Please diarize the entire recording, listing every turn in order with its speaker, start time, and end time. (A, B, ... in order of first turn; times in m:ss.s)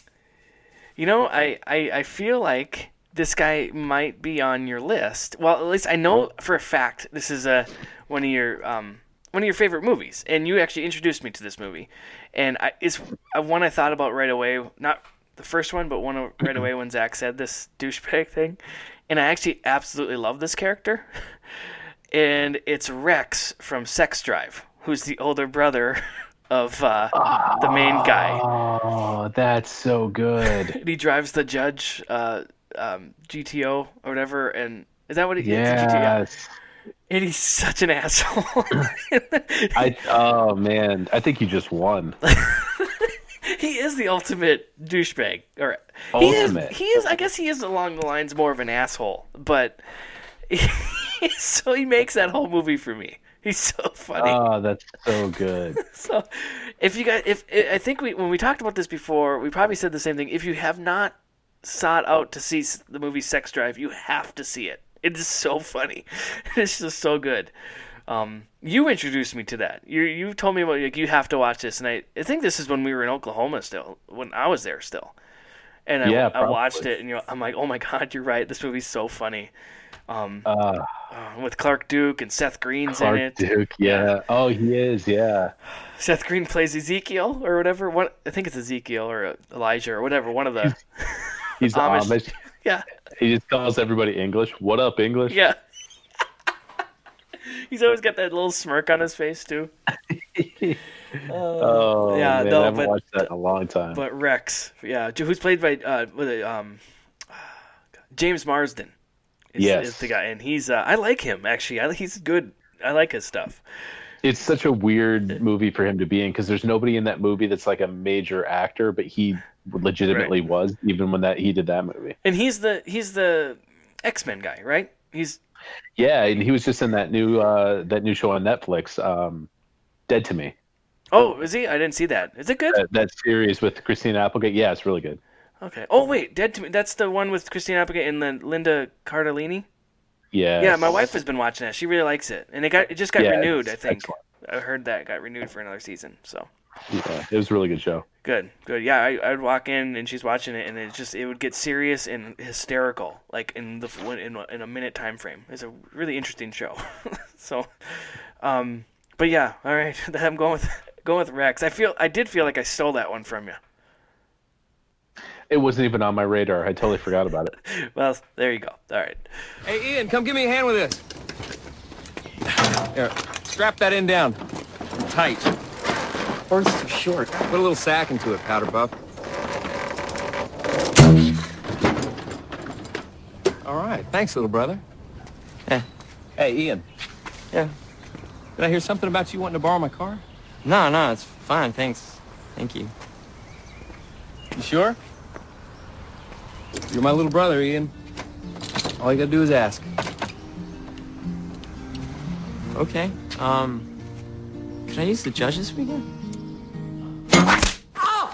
0:01.0-0:21.1 A
0:22.1-0:28.4 A
0:27.1-0:30.8 B
0:30.5-0:36.2 A
0:35.4-0:36.5 B
0:37.1-0:39.9 A
0:39.8-0:42.2 B
0:42.3-0:49.8 A
0:46.1-0:46.8 B
0:50.5-0:54.4 A
0:54.2-0:55.8 B
0:55.8-1:07.5 A
1:08.1-1:15.2 A
1:15.9-1:19.5 A
1:16.0-1:16.9 B
1:20.1-1:20.5 A
1:20.4-1:20.9 B
1:21.1-1:24.1 A
1:22.9-1:25.5 B
1:26.0-1:32.8 A
1:31.6-1:32.3 B
1:33.2-1:35.4 B
1:35.3-1:35.6 A
1:37.4-1:39.7 A
1:40.1-1:40.8 B
1:41.3-1:43.3 A
1:41.6-1:44.0 B
1:43.9-1:46.8 A
1:48.1-1:48.9 A
1:49.5-1:53.6 A
1:49.6-1:50.2 B
1:54.2-2:02.2 B
2:00.1-2:00.3 A
2:02.2-2:05.4 A
2:06.0-2:09.5 B
2:10.1-2:10.5 B
2:11.1-2:12.8 A
2:12.7-2:15.2 B
2:15.6-2:19.7 A
2:20.3-2:21.1 B
2:20.6-2:26.5 A
2:23.2-2:24.2 B
2:26.9-2:28.0 B
2:28.2-2:43.6 A
2:45.5-2:47.5 B
2:47.7-2:49.2 A
2:49.6-2:51.0 C
2:52.9-2:54.4 C
2:55.0-2:55.5 C
2:56.5-2:58.9 C
3:03.6-3:04.8 C
3:06.4-3:06.8 C
3:08.6-3:12.2 C
3:10.6-3:12.9 D
3:14.6-3:15.0 C
3:16.9-3:17.9 C
3:19.0-3:19.9 C
3:22.8-3:23.9 C
3:22.8-3:23.8 D
3:24.9-3:26.0 C
3:24.9-3:26.0 D